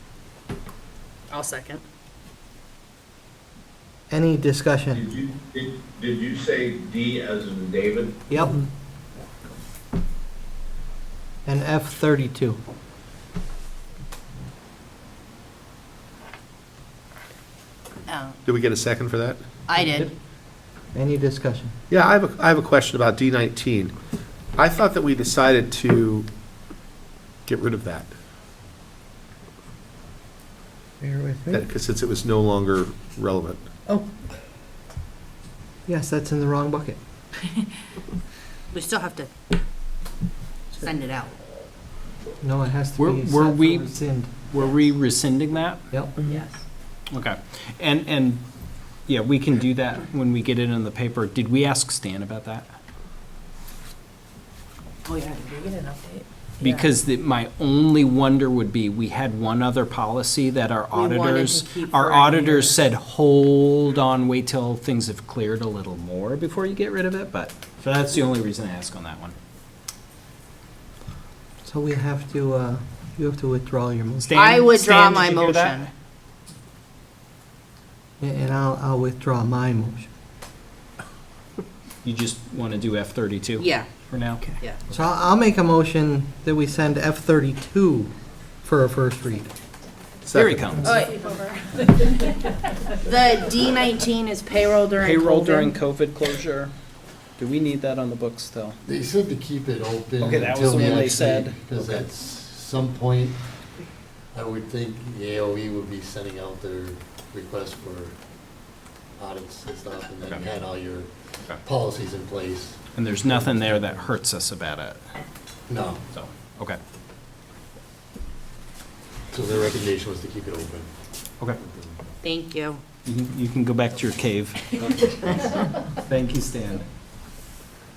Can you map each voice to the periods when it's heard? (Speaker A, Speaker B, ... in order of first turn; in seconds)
Speaker A: 1.3-1.8, 18.1-18.4, 19.7-20.1, 38.7-39.3, 40.7-41.4, 46.2-46.6, 55.0-56.9, 60.9-62.8, 74.3-75.9, 83.6-83.9, 84.4-84.8, 90.8-95.7, 122.2-122.8
Speaker B: 4.1-5.0, 8.3-8.6, 11.4-12.6, 19.8-20.1, 20.9-21.7, 31.0-31.7, 35.9-37.0, 42.4-44.3, 71.6-74.4, 78.2-80.1, 84.9-89.5
Speaker C: 4.9-8.2, 22.1-22.6
Speaker D: 18.4-19.4, 21.9-23.9, 24.6-26.3, 27.4-28.1, 31.5-33.6, 90.3-90.9
Speaker E: 43.0-45.8, 47.1-48.4, 49.1-52.8, 56.6-69.3, 74.2-75.8, 82.0-84.6, 90.3-90.9, 95.0-96.7, 97.4-98.8, 100.2-101.6, 113.0-115.0, 116.1-116.8, 123.0-125.5, 126.1-126.8
Speaker F: 98.8-103.4, 104.3-108.2, 109.2-111.1, 111.6-114.1, 115.7-116.0, 119.3-120.9, 121.6-121.9